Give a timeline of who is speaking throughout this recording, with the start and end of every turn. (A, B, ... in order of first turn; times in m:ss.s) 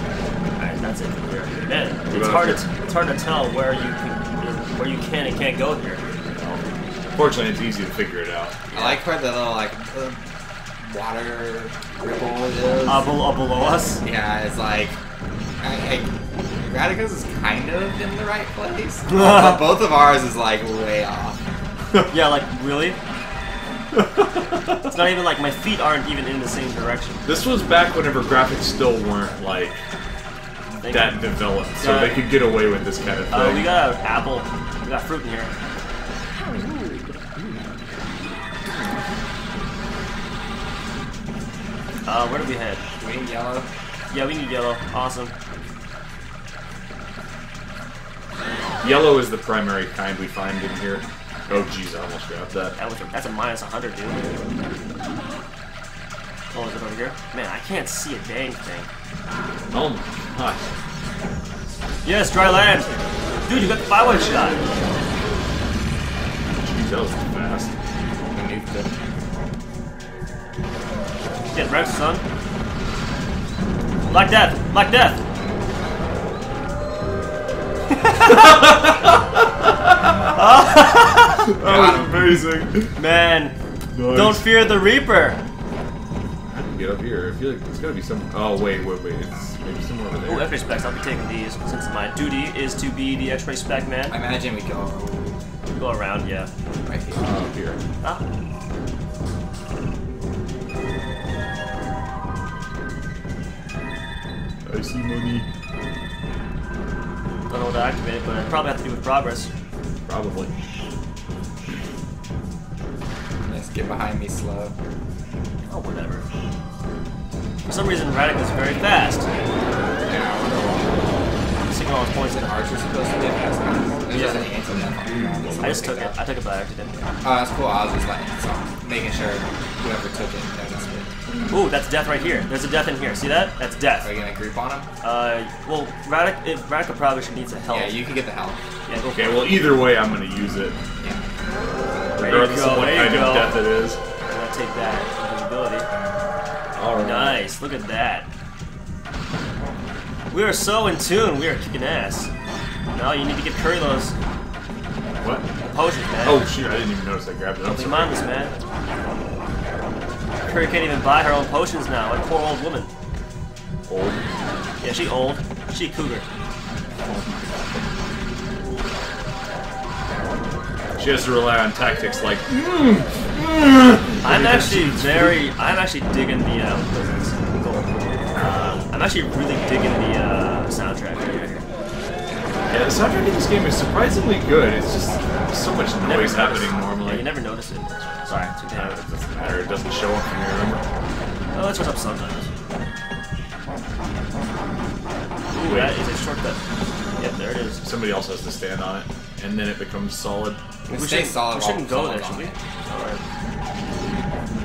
0:00.6-0:06.0 A
0:02.1-0:02.6 B
0:06.3-0:06.6 B
0:07.2-0:08.6 B
0:08.7-0:09.0 A
0:08.7-0:10.2 C
0:10.8-0:13.2 C
0:12.9-0:14.0 A
0:14.0-0:15.0 C
0:15.6-0:21.4 C
0:19.1-0:19.8 A
0:22.1-0:23.0 A
0:23.9-0:24.9 B
0:24.8-0:27.3 A
0:27.2-0:29.8 B
0:30.8-0:32.2 A
0:30.8-0:33.7 B
0:33.3-0:35.5 A
0:42.1-0:42.8 A
0:43.0-0:43.7 C
0:44.1-0:45.3 A
0:48.8-0:52.8 B
0:52.8-0:54.5 A
0:56.5-0:58.9 A
0:59.7-1:00.6 B
1:02.0-1:04.6 A
1:06.6-1:07.7 B
1:08.3-1:09.0 C
1:11.5-1:12.2 A
1:14.1-1:15.2 A
1:18.0-1:18.4 A
1:18.2-1:20.4 B
1:20.3-1:21.5 A
1:21.4-1:23.0 B
1:21.6-1:22.2 C
1:23.0-1:23.6 A
1:23.9-1:24.5 B
1:24.1-1:25.4 A
1:26.5-1:30.6 B
1:30.3-1:34.2 A
1:34.1-1:35.5 C
1:35.8-1:36.5 A
1:36.8-1:37.4 C
1:37.2-1:37.8 B
1:44.6-1:45.5 B
1:47.5-1:49.5 A
1:50.1-1:50.5 B
1:53.5-1:54.8 C
1:55.6-1:56.3 A
1:57.7-1:59.3 A
2:00.0-2:01.1 C
2:01.7-2:02.6 A
2:02.2-2:06.2 C
2:04.1-2:04.5 A
2:05.6-2:07.1 A
2:07.2-2:11.1 C
2:11.5-2:14.1 A
2:14.0-2:14.9 C
2:15.0-2:18.0 A
2:17.7-2:18.6 C
2:18.9-2:19.6 A
2:19.1-2:20.8 B
2:22.2-2:24.0 B
2:22.2-2:23.7 A
2:24.2-2:25.9 A
2:26.8-2:27.5 B
2:26.9-2:28.3 A
2:30.3-2:32.3 A
2:32.9-2:34.1 A
2:35.2-2:35.5 B
2:35.6-2:36.6 A
2:36.2-2:38.3 B
2:37.6-2:38.5 A
2:40.4-2:42.9 A
2:43.9-2:44.3 B
2:44.8-2:46.3 A
2:47.0-2:47.8 B
2:51.0-2:55.4 B
2:54.2-3:01.6 A
3:02.7-3:07.3 B
3:06.0-3:09.0 A
3:08.4-3:10.8 B
3:11.5-3:12.5 A
3:15.5-3:16.6 A
3:15.6-3:16.1 B
3:17.2-3:17.8 A
3:17.8-3:20.6 B
3:20.9-3:22.6 C
3:20.9-3:23.2 A